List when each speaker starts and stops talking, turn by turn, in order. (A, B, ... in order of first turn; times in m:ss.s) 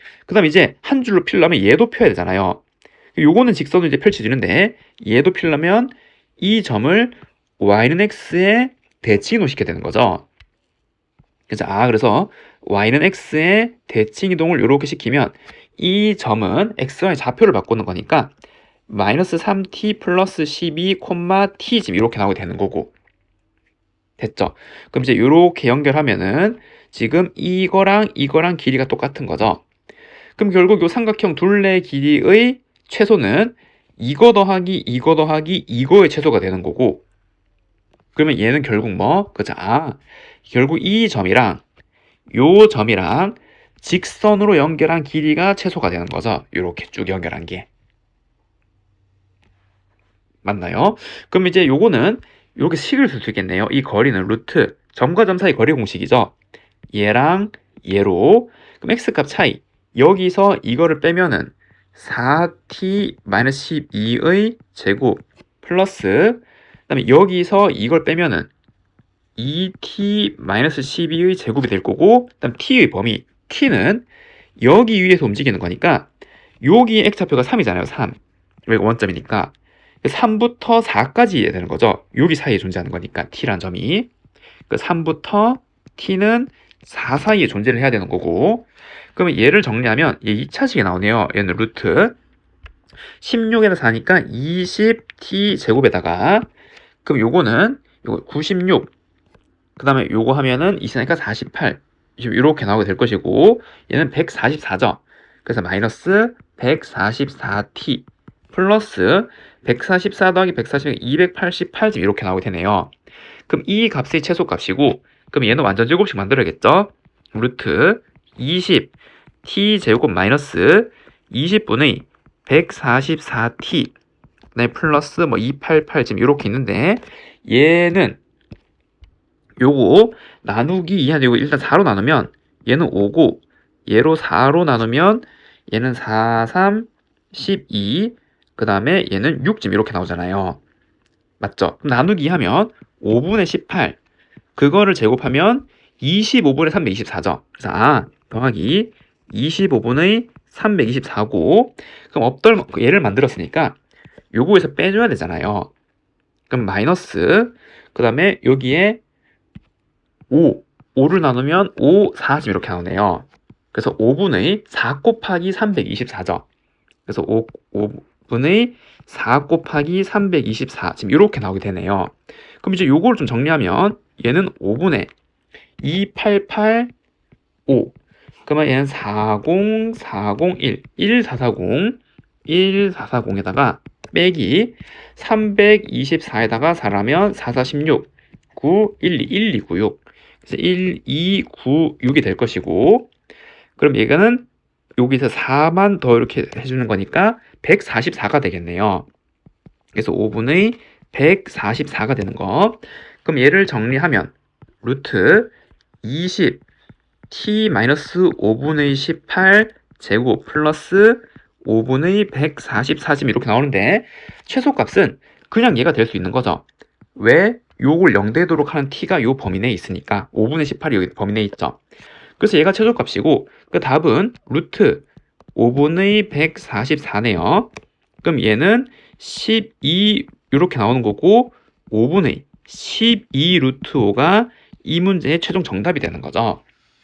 0:00.3-0:02.6 A
0:03.1-0:10.3 A
0:11.5-0:18.3 A
0:18.9-0:22.9 A
0:24.2-0:29.6 A
0:30.4-0:37.0 A
0:38.1-0:41.6 A
0:42.3-0:47.7 A
0:50.4-0:56.3 A
0:56.9-1:08.5 A
1:09.4-1:14.1 A
1:14.6-1:16.1 A
1:16.6-1:24.1 A
1:24.7-1:32.2 A
1:33.2-1:36.5 A
1:37.0-1:38.9 A
1:39.8-1:52.9 A
1:53.5-1:58.9 A
1:59.4-2:03.9 A
2:04.5-2:08.2 A
2:09.6-2:20.6 A
2:21.4-2:24.0 A
2:24.6-2:33.8 A
2:34.3-2:35.7 A
2:36.5-2:39.0 A
2:40.3-2:46.4 A
2:47.1-2:55.1 A
2:55.8-2:56.9 A
2:57.7-2:57.9 A
2:58.4-3:13.1 A
3:13.8-3:19.0 A
3:19.9-3:25.5 A
3:26.0-3:26.6 A
3:27.3-3:36.6 A
3:37.1-3:41.8 A
3:42.4-3:45.0 A
3:45.5-3:47.7 A
3:48.2-3:56.6 A